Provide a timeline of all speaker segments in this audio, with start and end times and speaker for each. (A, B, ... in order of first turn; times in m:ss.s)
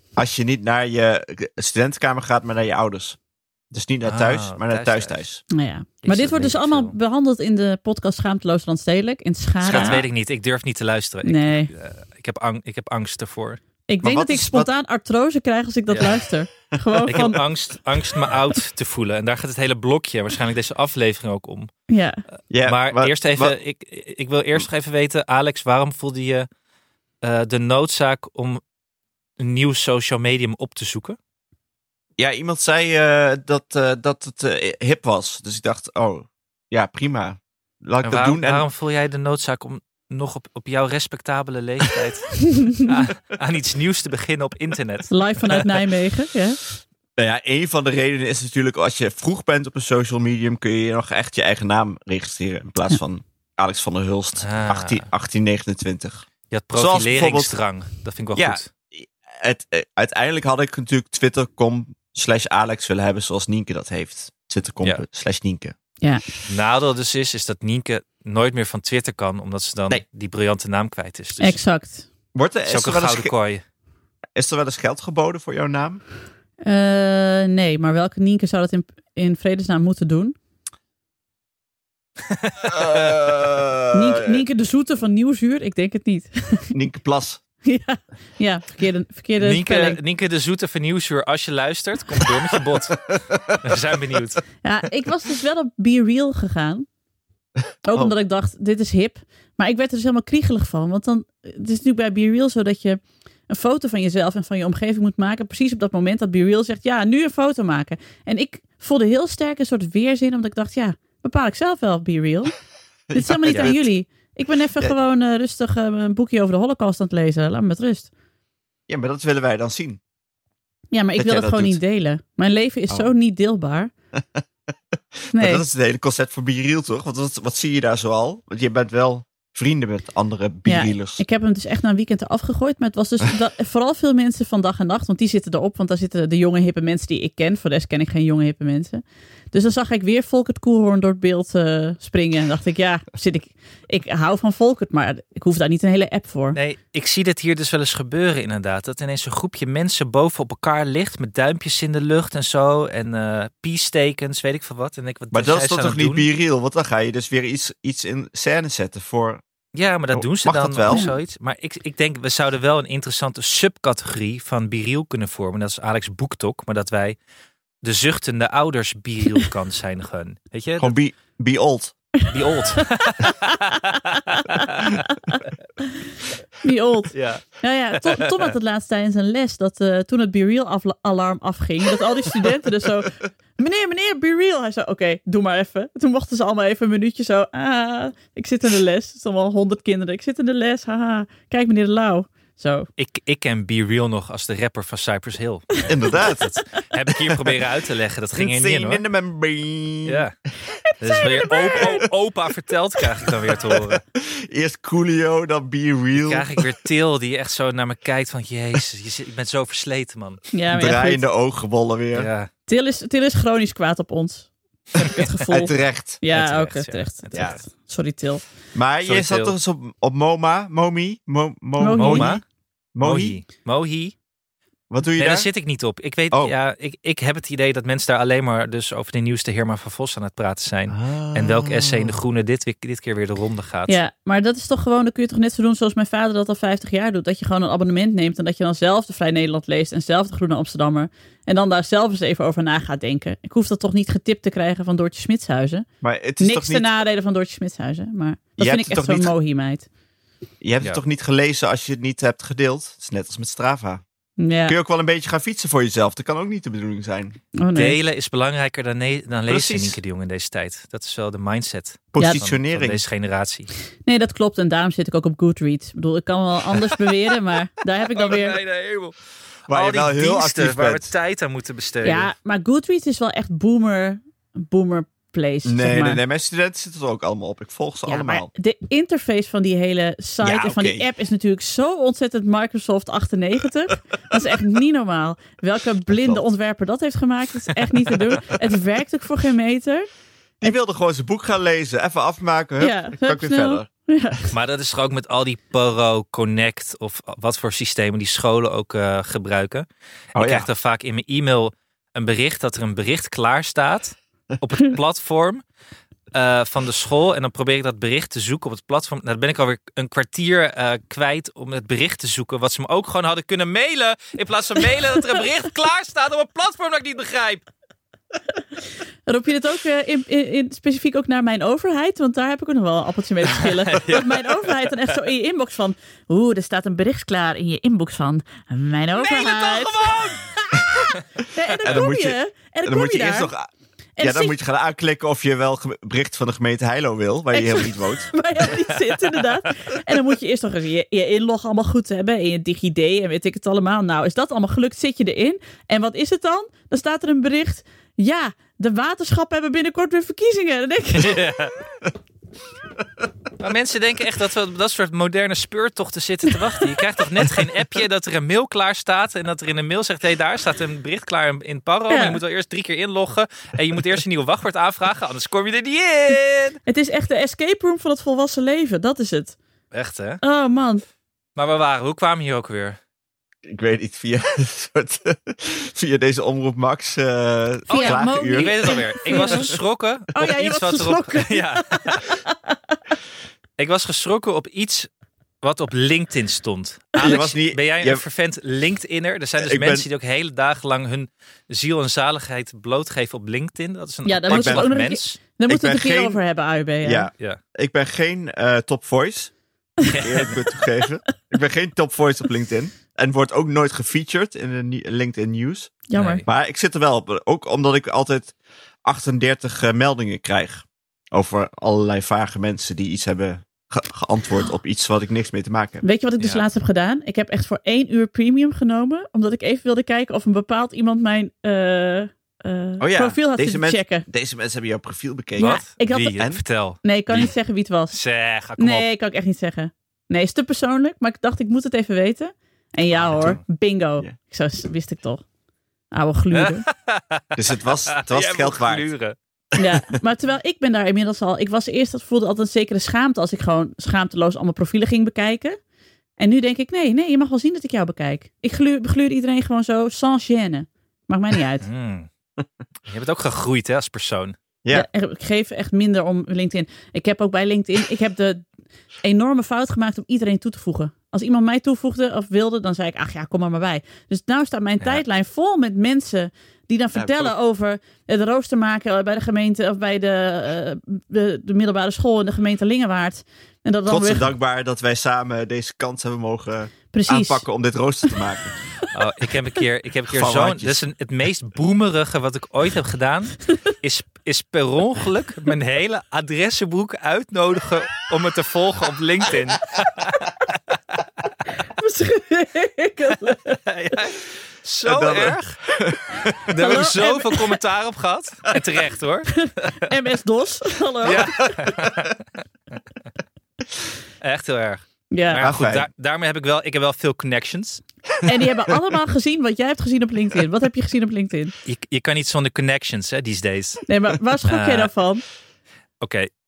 0:00.2-0:03.2 A
0:03.7-0:05.4 A
0:04.1-0:05.2 B
0:05.5-0:10.0 C
0:06.0-0:06.9 B
0:09.6-0:10.0 A
0:09.7-0:13.6 B
0:11.2-0:11.7 C
0:13.9-0:17.4 C
0:14.0-0:14.7 A
0:17.0-0:17.4 A
0:17.1-0:21.8 B
0:21.9-0:22.2 C
0:22.5-0:23.6 A
0:22.6-0:26.5 B
0:27.2-0:28.6 B
0:29.4-0:31.2 B
0:32.2-0:38.6 A
0:38.0-0:45.6 B
0:45.1-0:46.6 C
0:47.2-0:57.5 A
0:54.4-0:55.0 B
0:56.5-0:58.7 B
0:58.4-1:05.8 A
1:06.5-1:11.6 B
1:11.4-1:12.1 C
1:12.3-1:13.3 A
1:12.7-1:13.6 B
1:14.4-1:16.0 A
1:16.6-1:20.4 C
1:22.3-1:23.2 B
1:22.7-1:24.4 A
1:23.9-1:26.7 C
1:26.7-1:27.4 A
1:27.6-1:30.0 C
1:29.4-1:34.4 B
1:33.1-1:33.6 A
1:34.6-1:36.9 C
1:37.8-1:52.5 C
1:53.1-1:53.9 A
1:53.1-1:58.1 C
1:58.9-2:00.0 A
2:00.9-2:03.9 C
2:01.2-2:01.8 A
2:04.2-2:04.4 A
2:05.3-2:11.2 A
2:05.3-2:05.6 C
2:10.7-2:26.6 C
2:26.6-2:36.3 B
2:35.3-2:39.4 A
2:39.8-2:47.2 B
2:40.1-2:41.1 A
2:47.8-2:50.9 B
2:50.8-2:52.0 A
2:52.3-2:55.0 B
2:53.2-2:53.5 C
2:54.3-2:55.4 C
2:56.6-3:12.9 C
2:57.1-2:58.5 B
3:13.0-3:19.0 B
3:15.8-3:16.5 A
3:18.4-3:20.3 A
3:20.1-3:20.3 B
3:21.0-3:24.0 B
3:21.0-3:22.0 C
3:24.2-3:26.7 A
3:26.2-3:30.4 B
3:30.5-3:31.2 C
3:30.7-3:32.3 A
3:32.1-3:32.5 B
3:32.7-3:38.4 C
3:35.5-3:36.2 A
3:36.3-3:37.6 B
3:37.3-3:37.6 A
3:38.7-3:42.4 A
3:39.0-3:39.6 B
3:41.8-3:42.4 C
3:42.0-3:42.4 B
3:43.0-3:43.4 A
3:43.0-3:44.2 B
3:44.9-3:45.5 A
3:45.2-3:54.0 B
3:50.9-3:52.2 A
3:53.9-4:05.9 C
4:06.0-4:06.9 A
4:06.4-4:09.9 C
4:08.6-4:09.3 A
4:10.6-4:14.0 A
4:14.4-4:14.8 C
4:14.7-4:17.4 A
4:17.6-4:18.0 C
4:17.8-4:23.7 B
4:19.5-4:20.0 A
4:22.1-4:23.0 A
4:24.1-4:28.6 C
4:28.2-4:29.2 B
4:29.7-4:32.3 B
4:29.7-4:31.1 A
4:32.0-4:36.2 C
4:35.6-4:38.5 A
4:38.1-4:50.1 C
4:40.4-4:41.1 A
4:46.1-4:46.4 A
4:50.6-4:53.9 A
4:52.8-4:54.5 C
4:54.5-5:05.6 B
5:00.4-5:00.7 A
5:06.3-5:17.6 B
5:19.3-5:30.2 C
5:23.9-5:24.5 B
5:29.2-5:30.5 B
5:31.5-5:33.5 C
5:31.8-5:33.7 A
5:34.2-5:34.6 C
5:34.2-5:38.3 A
5:37.5-5:51.4 C
5:51.1-5:51.8 B
5:53.6-6:06.8 B
6:02.1-6:02.4 C
6:06.9-6:09.6 C
6:09.9-6:10.4 B
6:10.4-6:11.0 C
6:11.6-6:13.0 B
6:13.6-6:19.8 A
6:17.9-6:19.7 C
6:17.9-6:22.3 B
6:20.3-6:22.8 C
6:23.8-6:25.1 B
6:25.6-6:35.4 B
6:27.2-6:28.2 A
6:29.6-6:30.1 A
6:34.2-6:37.3 C
6:34.5-6:34.9 A
6:35.7-6:36.4 A
6:37.0-6:39.5 A
6:40.1-6:40.6 B
6:40.2-6:56.0 A
6:46.1-6:46.4 C
6:46.2-6:46.4 B
6:56.0-7:04.3 C
7:03.0-7:06.6 A
7:05.6-7:06.4 C
7:05.6-7:07.5 B
7:07.0-7:08.2 C
7:08.1-7:09.1 B
7:08.8-7:15.4 C
7:13.2-7:13.6 B
7:16.1-7:16.8 C
7:16.5-7:17.6 B
7:17.6-7:19.1 A
7:18.1-7:19.4 B
7:19.8-7:25.8 C
7:26.4-7:31.9 C
7:31.8-7:32.3 B
7:33.1-7:34.6 B
7:34.9-7:38.7 C
7:39.2-7:54.5 C
7:47.2-7:47.5 A
7:54.1-7:58.8 A
7:57.1-7:57.6 C
7:59.1-8:10.4 B
8:00.3-8:01.0 A
8:12.0-8:13.8 C
8:13.9-8:15.8 B
8:15.0-8:16.6 A
8:16.7-8:19.9 B
8:16.8-8:17.8 C
8:19.6-8:21.7 C
8:21.2-8:22.4 B
8:24.4-8:28.0 B
8:25.3-8:25.6 C
8:25.6-8:26.1 A
8:28.4-8:31.7 C
8:31.8-8:34.0 B
8:34.1-8:35.4 C
8:34.7-8:35.1 B
8:36.2-8:36.5 B